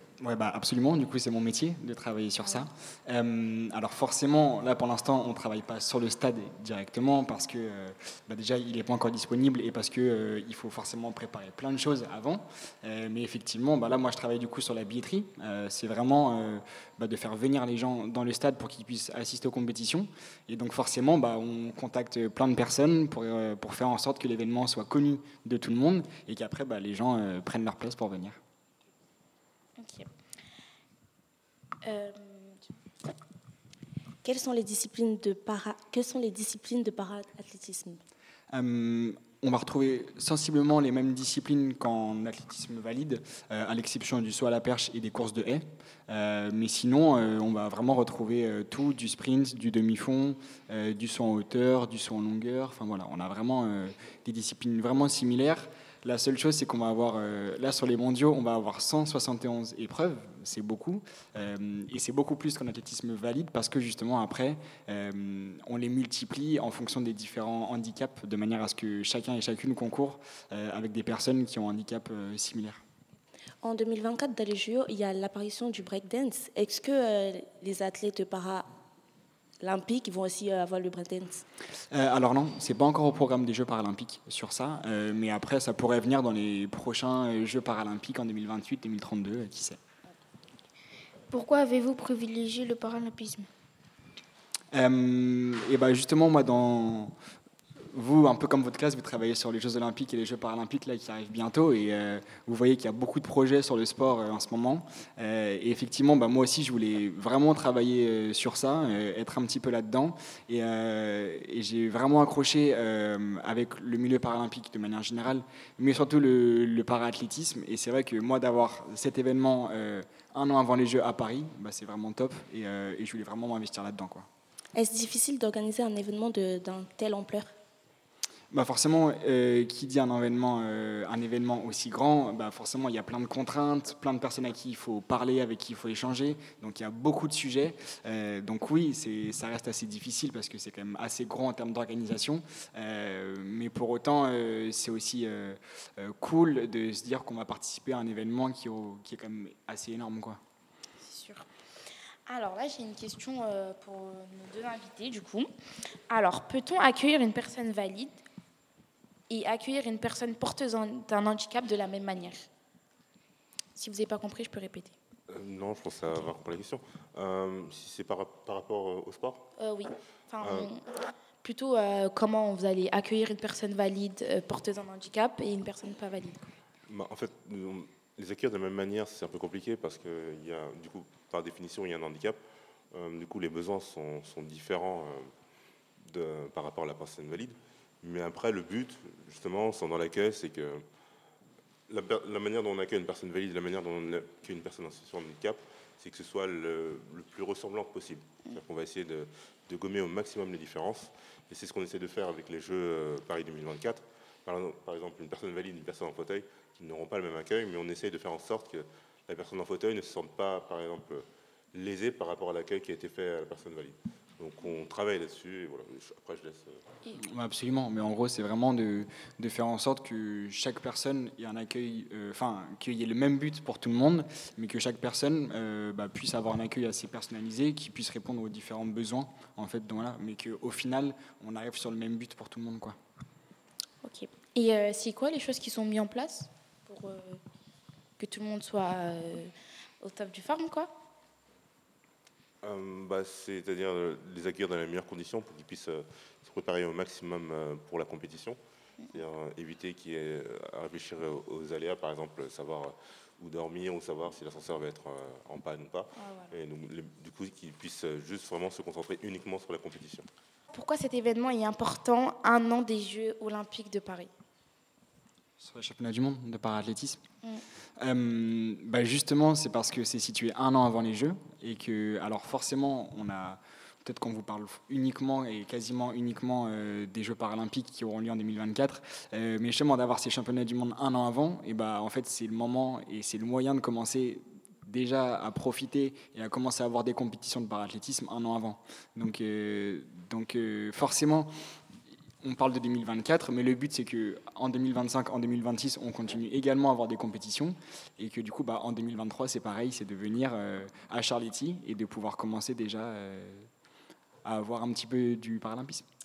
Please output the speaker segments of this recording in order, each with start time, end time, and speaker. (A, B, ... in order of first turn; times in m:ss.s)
0:00.2-0:28.4 A
0:29.8-0:30.1 B
0:31.8-0:32.6 B
0:34.2-0:38.0 C
0:38.5-1:12.8 A
1:13.6-1:18.7 C
1:19.6-1:21.4 C
1:21.9-1:29.8 A
1:31.3-1:33.5 D
1:34.7-1:37.1 A
1:37.9-2:04.3 A
2:04.8-2:07.5 C
2:08.5-2:30.4 A
2:31.0-2:31.5 B
2:32.3-2:35.5 B
2:36.1-2:38.2 B
2:39.3-2:42.5 B
2:43.8-2:45.0 B
2:45.3-2:49.5 E
2:49.6-2:50.8 B
2:50.4-2:50.7 E
2:51.4-2:56.5 B
2:56.9-3:02.4 E
3:02.9-3:05.3 E
3:06.0-3:10.8 E
3:11.9-3:36.8 E
3:37.2-3:53.0 A
3:54.0-3:57.4 B
3:58.2-4:00.9 B
4:02.6-4:08.6 E
4:09.1-4:20.3 E
4:16.2-4:16.5 B
4:20.7-4:24.3 B
4:25.6-4:27.2 A
4:28.0-4:51.5 A
4:52.4-5:03.7 A
5:04.4-5:06.0 A